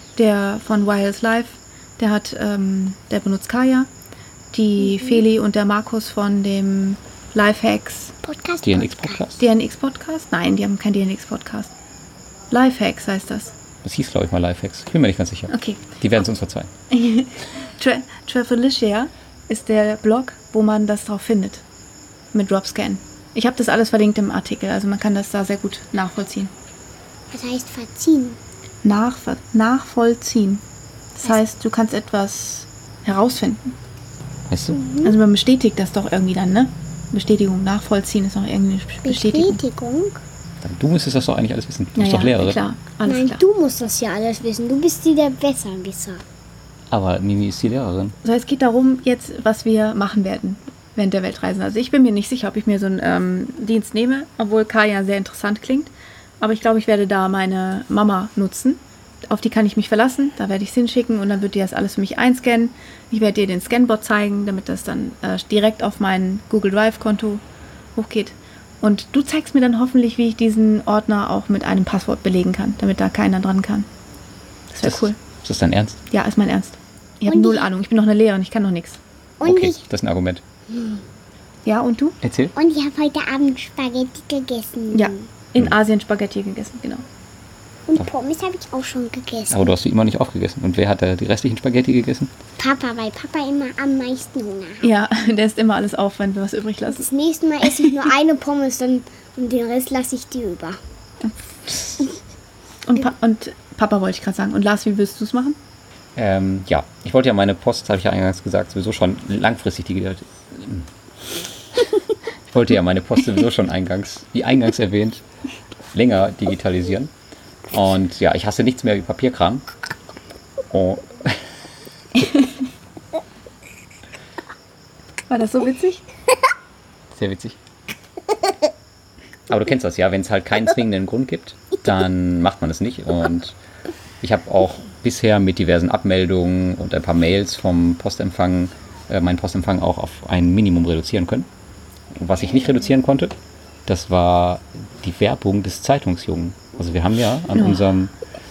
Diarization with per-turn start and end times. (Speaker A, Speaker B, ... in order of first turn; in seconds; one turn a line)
Speaker A: 0.1-3.9
Speaker A: 4.5-8.1
Speaker B: 8.2-9.2
Speaker C: 8.6-9.4
Speaker A: 9.4-11.7
Speaker A: 12.5-13.5
Speaker C: 13.8-16.7
Speaker A: 15.5-15.8
Speaker A: 16.9-21.6
Speaker A: 22.3-26.5
Speaker B: 27.3-28.4
Speaker A: 28.8-30.6
Speaker A: 31.2-33.7
Speaker C: 34.5-34.8
Speaker B: 34.7-35.2
Speaker A: 35.0-39.6
Speaker B: 39.0-40.2
Speaker C: 40.6-42.6
Speaker A: 42.0-43.4
Speaker B: 43.0-46.2
Speaker C: 46.9-48.2
Speaker A: 48.2-67.4
Speaker A: 68.0-73.9
Speaker A: 74.7-75.2
Speaker C: 74.8-76.0
Speaker A: 76.1-79.0
Speaker B: 77.3-77.7
Speaker B: 79.4-79.8
Speaker C: 79.4-80.4
Speaker B: 80.7-81.0
Speaker A: 81.6-82.2
Speaker C: 82.2-82.5
Speaker B: 82.5-85.2
Speaker A: 84.9-87.0
Speaker B: 87.9-89.7
Speaker C: 89.5-92.3
Speaker B: 92.6-94.9
Speaker A: 94.8-97.1
Speaker B: 96.9-100.8
Speaker A: 101.2-102.0
Speaker A: 102.8-105.6
Speaker C: 106.2-110.9
Speaker C: 112.5-115.2
Speaker C: 115.9-117.1
Speaker C: 117.7-119.6
Speaker C: 120.7-121.4
Speaker A: 125.3-126.0
Speaker C: 127.1-127.6
Speaker C: 129.5-133.6
Speaker C: 134.2-141.5
Speaker C: 142.2-143.3
Speaker C: 143.8-148.1
Speaker A: 147.5-147.8